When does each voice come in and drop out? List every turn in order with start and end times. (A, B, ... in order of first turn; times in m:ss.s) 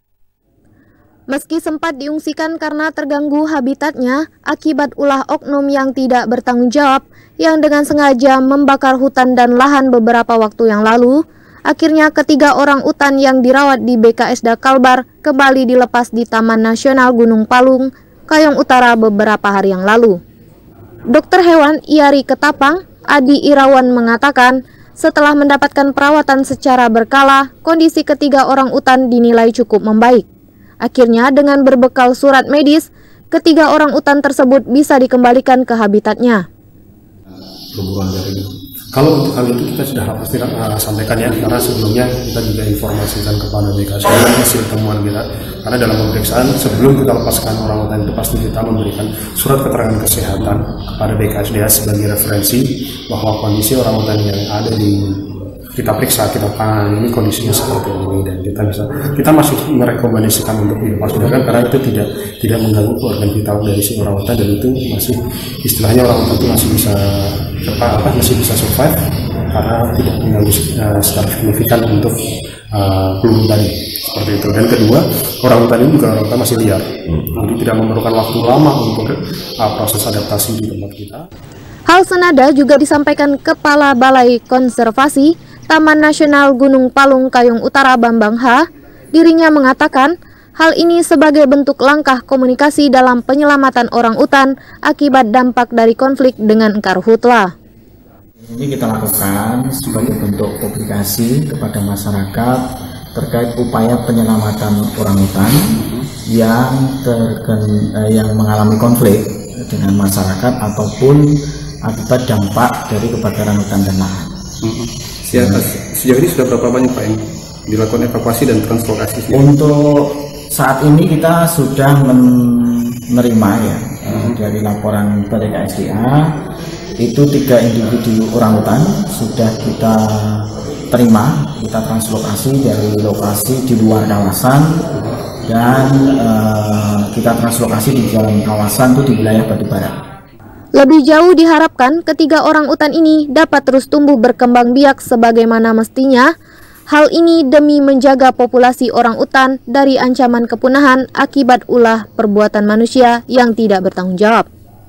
0:01.3-0:20.2 A
0:21.1-0:30.2 A
0:30.8-0:36.4 A
0:37.7-1:09.0 B
1:09.5-1:12.2 B
1:12.7-1:21.2 B
1:21.9-1:28.6 A
1:29.1-1:37.5 A
1:38.5-1:45.8 C
1:46.3-1:54.3 C
1:54.6-1:59.5 B
1:55.3-1:55.7 C
1:59.3-2:06.3 C
2:07.0-2:14.8 C
2:15.5-2:19.9 C
2:20.8-2:26.3 A
2:26.9-2:34.5 A